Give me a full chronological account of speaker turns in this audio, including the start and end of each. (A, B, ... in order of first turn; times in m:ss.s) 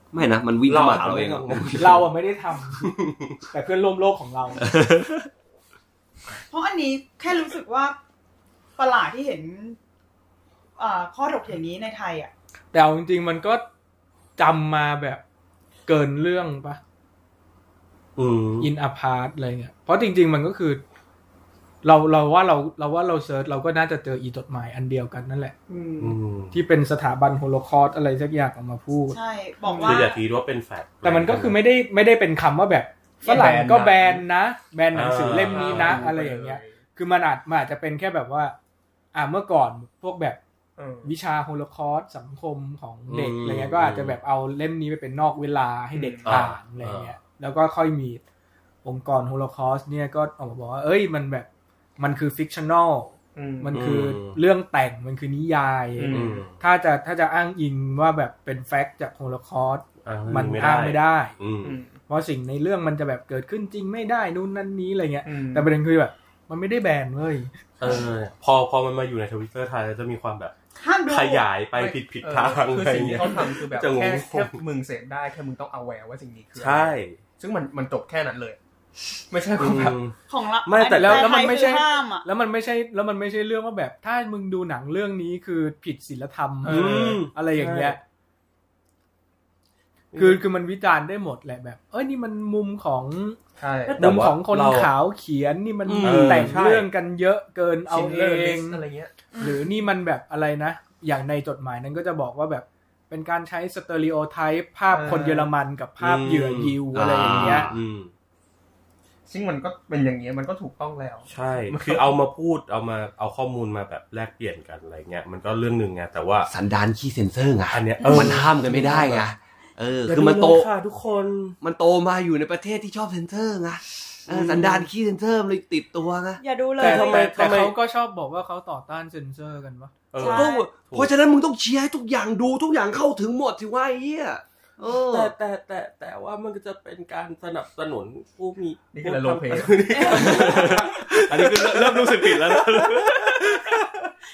0:00.1-0:02.0 A
0:00.6-0:02.1 B
0:01.7-0:02.9 C
0:02.8-0:03.3 B
0:03.5-0:04.6 C
0:04.6-0:05.3 A
0:06.5-0:08.0 D
0:08.8-0:09.8 D
0:10.8-0:12.3 D
0:12.7-0:13.6 C
0:14.4-0:15.2 C
0:15.9-0:16.8 C
0:18.2-0:18.7 B
0:18.6-0:20.8 C
0:21.8-0:25.6 C
0:25.7-0:26.2 E
0:26.0-0:26.6 B
0:26.5-0:29.2 C
0:29.1-0:30.2 D
0:29.6-0:30.1 E
0:29.8-0:31.6 B
0:31.0-0:38.5 C
0:33.3-0:33.8 E
0:33.3-0:33.9 A
0:34.9-0:36.0 B
0:35.3-0:36.7 E
0:39.1-0:40.4 C
0:40.8-0:41.1 E
0:41.0-0:48.2 C
0:43.1-0:44.2 B
0:45.9-0:46.4 E
0:46.2-0:47.1 B
0:48.8-0:51.5 C
0:52.0-1:01.3 C
0:53.4-0:53.9 E
0:53.7-0:54.4 B
0:56.0-0:56.4 E
0:56.1-0:56.5 B
1:00.0-1:01.8 B
1:01.6-1:01.9 E
1:02.1-1:07.5 C
1:05.2-1:05.7 E
1:07.8-1:10.5 B
1:10.8-1:11.5 D
1:11.1-1:14.6 B
1:11.7-1:18.6 E
1:16.6-1:17.2 B
1:19.3-1:20.0 E
1:19.6-1:21.4 B
1:20.3-1:22.2 D
1:20.9-1:28.0 C
1:26.6-1:27.8 E
1:26.6-1:27.9 B
1:30.1-1:30.4 B
1:30.1-1:33.4 C
1:33.6-1:34.0 E
1:33.9-1:34.9 B
1:33.9-1:38.8 C
1:35.8-1:36.6 A
1:36.0-1:36.9 B
1:37.9-1:39.1 E
1:39.3-1:39.7 D
1:39.4-1:47.7 C
1:44.9-1:45.5 E
1:46.0-1:48.1 B
1:46.9-1:47.8 A
1:49.3-1:52.0 E
1:51.3-1:56.5 B
1:56.5-2:00.7 A
1:57.7-1:59.3 B
2:00.0-2:01.6 B
2:01.6-2:06.4 A
2:04.3-2:04.9 B
2:06.4-2:07.3 D
2:06.8-2:07.7 B
2:06.8-2:09.9 C
2:10.1-2:11.1 B
2:10.2-2:10.7 D
2:10.2-2:15.3 A
2:14.9-2:24.1 B
2:18.9-2:20.7 E
2:19.9-2:20.8 D
2:20.1-2:23.6 A